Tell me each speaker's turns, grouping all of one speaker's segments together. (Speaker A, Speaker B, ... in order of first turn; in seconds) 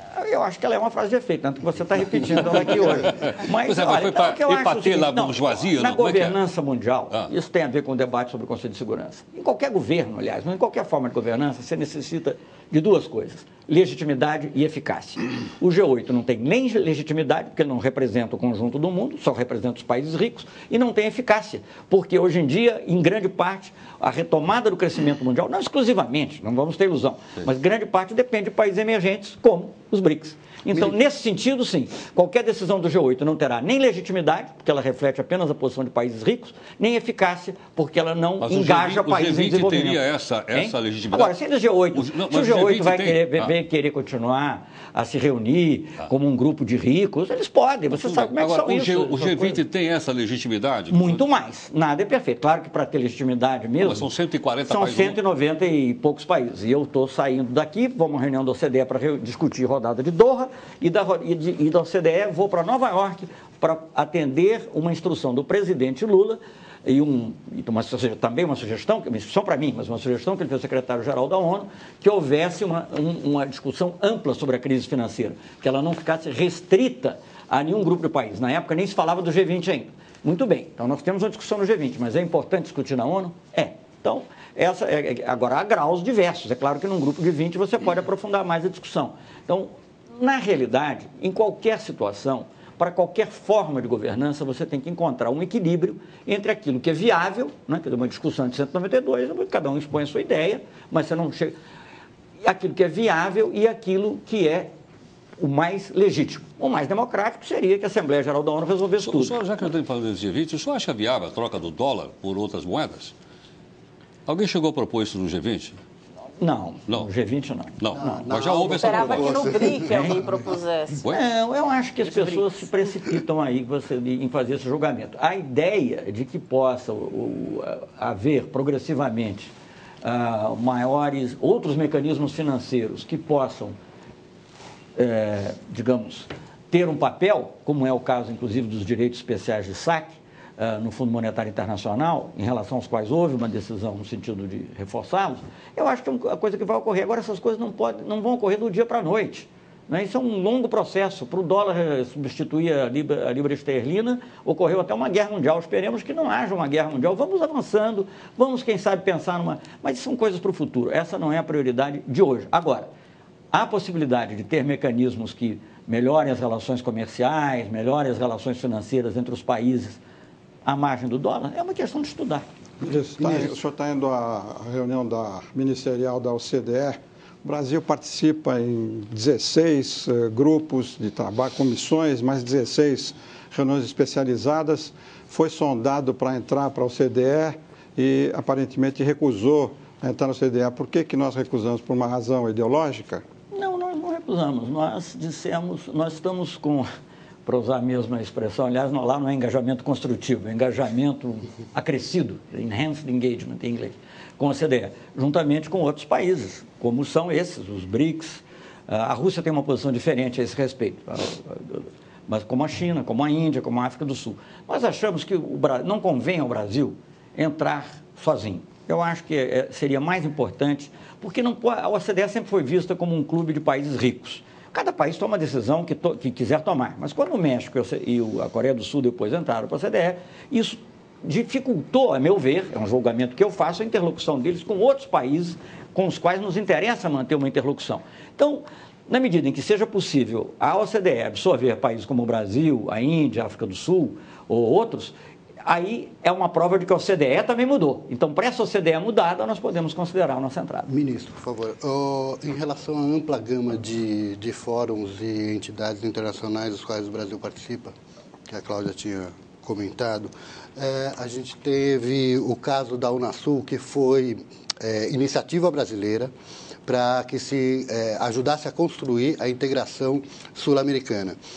Speaker A: 0.1-49.6, 50.9-54.0, 54.7-101.5, 102.4-104.7, 105.4-109.4, 116.4-118.4, 119.0-119.2, 119.8-120.2, 121.1-129.5, 130.0-133.8, 134.9-162.9, 163.5-170.0, 170.6-172.4, 193.5-196.9, 197.4-250.9
Speaker B: 2.2-6.4, 38.4-41.4, 41.9-43.5, 47.9-51.2, 53.8-55.2, 109.0-113.1, 114.2-115.8, 117.8-119.6
Speaker C: 117.9-120.5, 173.2-173.5, 250.9-257.9, 258.5-266.3, 266.9-271.4
Speaker D: 118.5-121.0, 122.0-122.4
Speaker E: 172.8-193.2